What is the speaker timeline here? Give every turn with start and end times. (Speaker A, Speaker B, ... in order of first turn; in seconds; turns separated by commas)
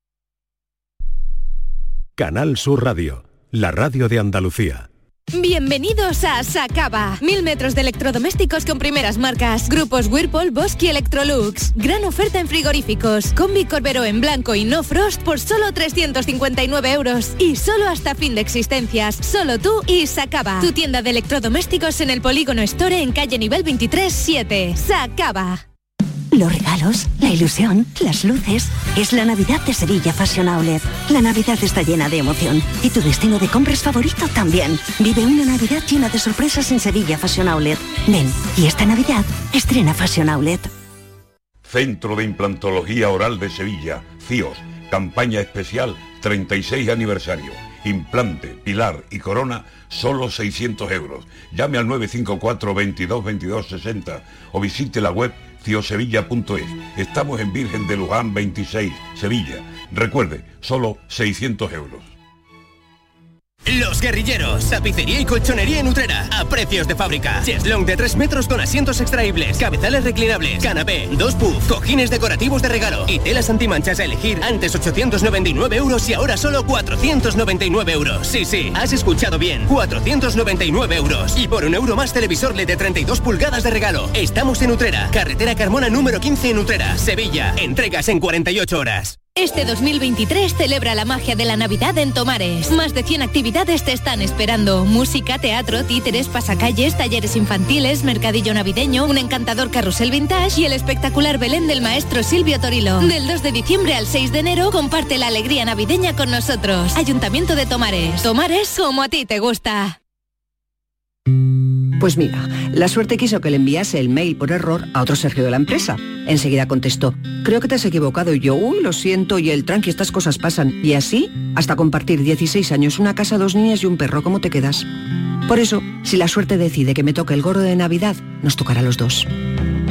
Speaker A: 2.2-4.9, Speaker B: 5.3-25.6, Speaker C: 26.3-40.7, Speaker D: 41.6-62.1, Speaker E: 63.6-89.2, Speaker B: 89.3-110.0, Speaker F: 112.0-124.9, Speaker F: 125.4-129.3